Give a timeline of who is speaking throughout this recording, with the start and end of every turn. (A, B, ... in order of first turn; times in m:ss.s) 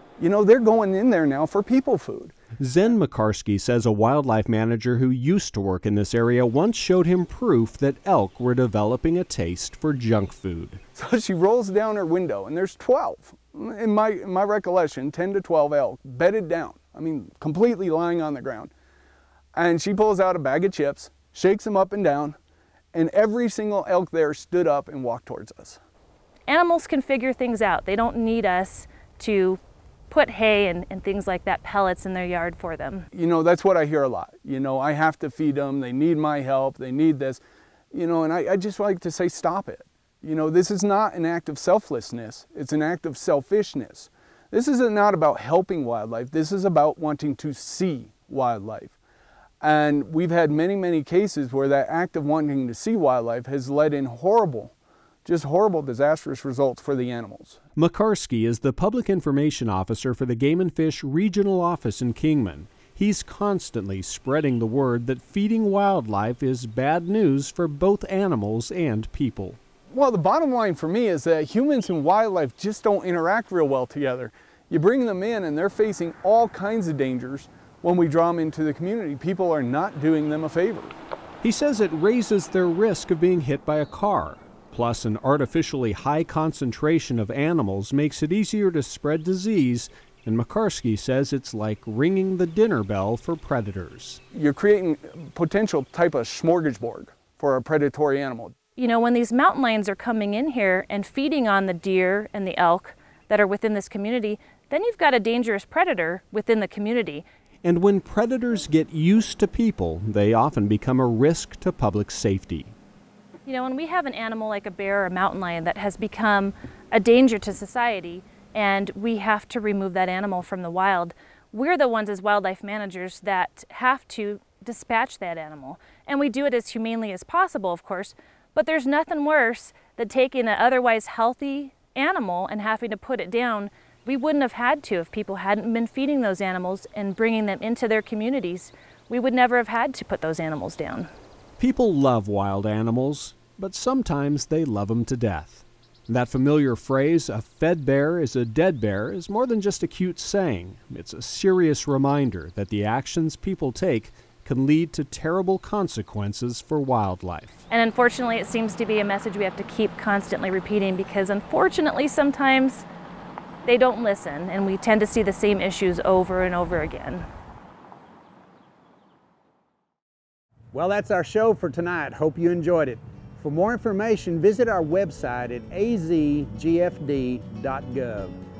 0:00.2-0:02.4 A
0:02.6-0:10.8 B
0:10.9-0:18.7 A
0:19.6-0:22.4 A
0:22.9-0:25.8 A
0:26.5-0:33.1 C
0:33.1-0:49.0 A
0:49.6-0:54.7 A
0:55.2-0:57.6 A
0:57.8-1:09.6 B
1:09.9-1:21.0 A
1:21.4-1:34.2 B
1:34.3-1:38.6 A
1:38.8-1:47.2 C
1:47.6-1:52.8 B
1:53.4-2:21.1 C
2:21.6-2:37.6 B
2:37.7-2:42.8 C
2:43.6-2:47.3 C
2:50.7-2:58.4 D